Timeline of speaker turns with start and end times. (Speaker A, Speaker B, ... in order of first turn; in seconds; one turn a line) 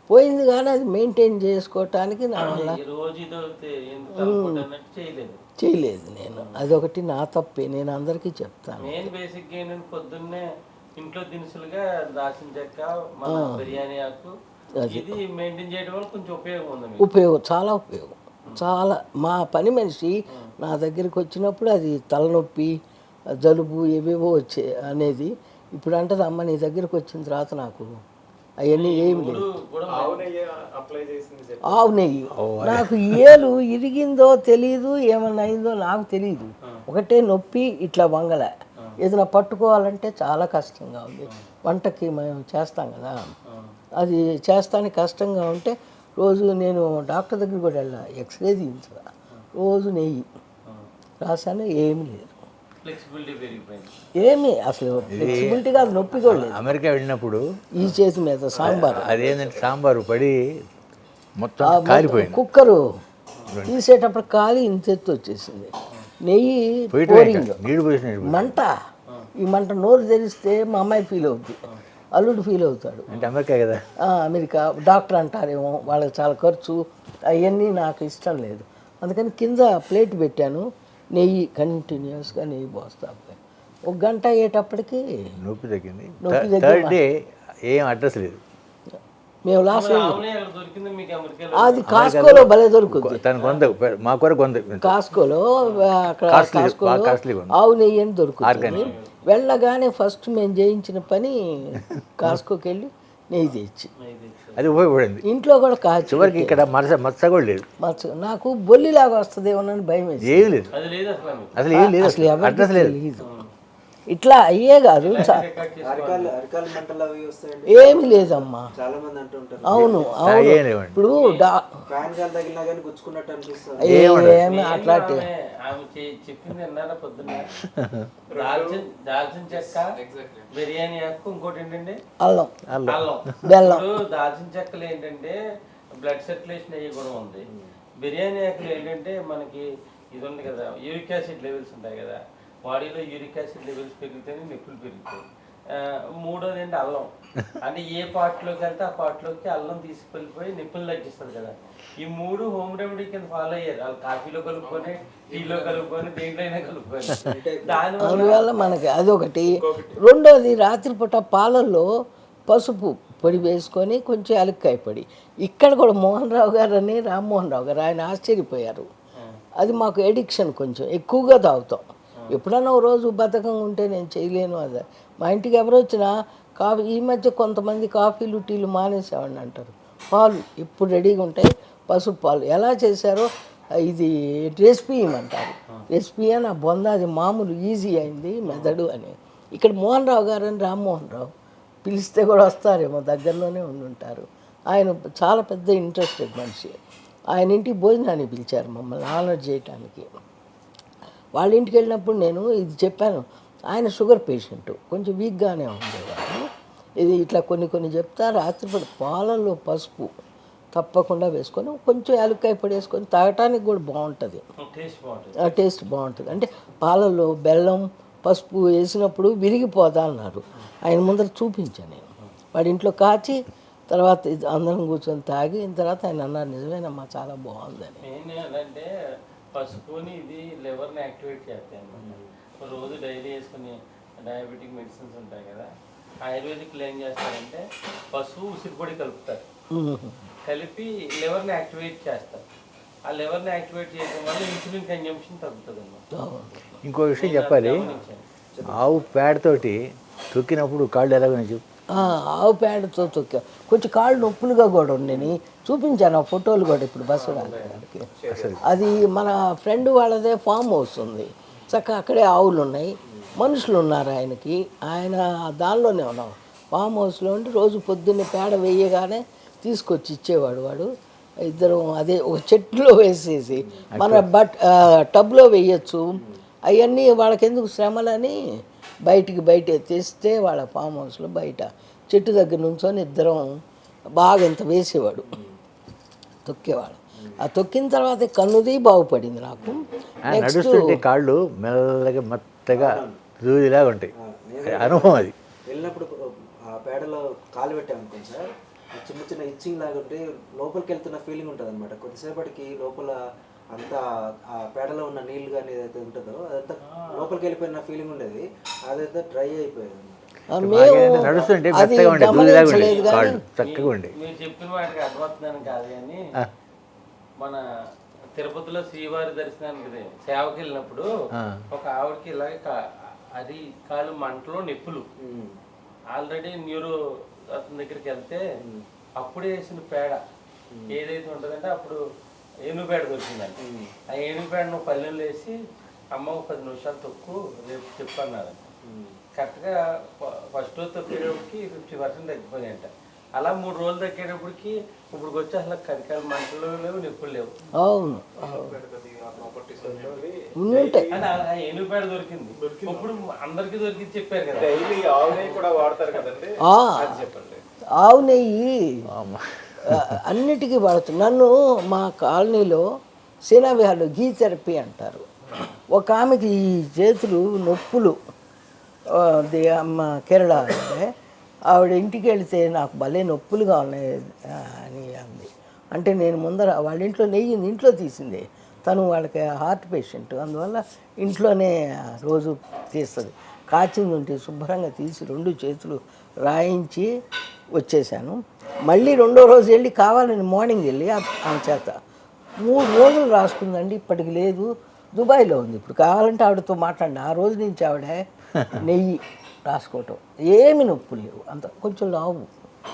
Speaker A: 0.1-2.8
Speaker B: 2.4-5.4
Speaker A: 4.2-4.7
Speaker A: 5.6-9.1
Speaker B: 6.3-6.6
Speaker B: 8.8-14.3
Speaker A: 13.3-13.7
Speaker A: 14.8-15.2
Speaker B: 14.9-17.1
Speaker A: 17.0-22.8
Speaker A: 23.4-28.0
Speaker A: 28.6-29.4
Speaker B: 28.7-30.3
Speaker C: 29.9-32.1
Speaker A: 31.7-43.2
Speaker D: 32.4-33.4
Speaker B: 43.5-43.8
Speaker A: 44.0-50.3
Speaker A: 51.2-52.4
Speaker B: 52.8-54.0
Speaker A: 54.2-56.7
Speaker B: 55.0-55.5
Speaker D: 55.1-55.6
Speaker D: 56.2-57.4
Speaker A: 57.8-59.2
Speaker D: 58.7-60.4
Speaker C: 59.2-59.5
Speaker D: 61.4-62.4
Speaker A: 61.6-62.8
Speaker D: 63.5-63.8
Speaker A: 63.7-67.6
Speaker D: 66.9-68.5
Speaker A: 68.2-68.8
Speaker A: 69.4-71.6
Speaker A: 72.2-73.1
Speaker D: 73.1-73.8
Speaker A: 74.0-85.1
Speaker D: 85.4-87.1
Speaker A: 86.2-87.0
Speaker D: 87.7-88.4
Speaker A: 89.5-90.2
Speaker B: 89.7-92.0
Speaker A: 91.6-93.2
Speaker D: 91.9-94.9
Speaker B: 93.4-93.6
Speaker A: 94.8-103.9
Speaker D: 96.3-97.6
Speaker D: 98.4-98.9
Speaker B: 98.6-99.2
Speaker B: 104.0-104.8
Speaker D: 104.6-105.3
Speaker A: 105.2-106.6
Speaker D: 106.1-107.7
Speaker A: 107.8-110.7
Speaker D: 110.2-110.7
Speaker B: 110.7-111.6
Speaker D: 111.6-113.0
Speaker A: 111.7-113.3
Speaker B: 113.2-113.5
Speaker A: 114.1-115.4
Speaker B: 115.0-116.4
Speaker E: 115.8-120.2
Speaker A: 117.7-118.7
Speaker A: 119.7-121.8
Speaker D: 120.2-121.0
Speaker B: 121.1-121.5
Speaker E: 121.9-123.9
Speaker D: 123.8-124.4
Speaker A: 123.8-125.3
Speaker B: 124.3-127.5
Speaker D: 127.8-128.1
Speaker C: 128.3-128.8
Speaker B: 128.3-129.9
Speaker C: 129.5-130.6
Speaker B: 130.5-132.0
Speaker A: 132.2-132.6
Speaker D: 132.7-133.4
Speaker B: 132.9-135.4
Speaker A: 133.4-133.9
Speaker B: 136.0-137.5
Speaker B: 138.0-158.4
Speaker C: 154.6-156.0
Speaker E: 157.2-158.3
Speaker A: 158.0-161.9
Speaker C: 159.6-160.0
Speaker A: 162.5-168.9
Speaker A: 169.6-191.3
Speaker B: 188.5-188.8
Speaker A: 191.8-196.8
Speaker A: 197.3-200.1
Speaker A: 201.4-206.5
Speaker A: 207.0-210.1
Speaker A: 210.8-214.4
Speaker B: 214.6-215.6
Speaker A: 215.4-228.0
Speaker B: 228.0-228.9
Speaker B: 229.5-235.7
Speaker E: 232.0-232.3
Speaker B: 236.2-239.4
Speaker A: 239.7-240.2
Speaker B: 240.4-242.4
Speaker B: 243.1-246.0
Speaker A: 246.1-246.6
Speaker D: 246.8-247.8
Speaker B: 247.2-248.2
Speaker E: 247.8-249.0
Speaker D: 248.7-249.8
Speaker D: 250.3-251.6
Speaker A: 251.9-258.1
Speaker C: 257.2-258.7
Speaker D: 258.3-258.6
Speaker A: 258.6-270.9
Speaker A: 271.4-276.1
Speaker D: 273.9-274.3
Speaker A: 276.7-278.4
Speaker A: 279.1-283.5
Speaker A: 284.2-285.3
Speaker E: 285.3-285.5
Speaker A: 286.5-291.0
Speaker D: 290.3-294.1
Speaker E: 292.7-293.2
Speaker E: 294.2-296.1
Speaker D: 294.6-295.4
Speaker E: 296.7-303.2
Speaker E: 303.7-310.2
Speaker B: 306.9-307.3
Speaker A: 310.5-313.4
Speaker D: 310.6-314.1
Speaker B: 312.6-316.2
Speaker B: 318.4-321.1
Speaker B: 321.7-322.8
Speaker B: 323.4-325.1
Speaker E: 325.2-325.6
Speaker B: 326.1-327.0
Speaker B: 327.5-328.4
Speaker B: 329.2-330.2
Speaker B: 330.9-332.0
Speaker B: 332.7-333.6
Speaker E: 333.6-333.9
Speaker B: 334.1-335.6
Speaker B: 336.1-338.6
Speaker E: 338.9-339.2
Speaker B: 339.4-347.5
Speaker A: 347.8-348.8
Speaker C: 348.4-351.3
Speaker A: 350.6-351.1
Speaker B: 351.1-356.3
Speaker C: 352.6-353.1
Speaker C: 354.6-357.6
Speaker A: 356.7-357.3
Speaker A: 358.0-359.0
Speaker D: 359.1-360.2
Speaker A: 359.9-362.9
Speaker A: 363.5-365.3
Speaker A: 365.9-368.2
Speaker A: 369.1-371.1
Speaker A: 371.7-387.1
Speaker A: 387.8-392.0
Speaker A: 392.6-402.5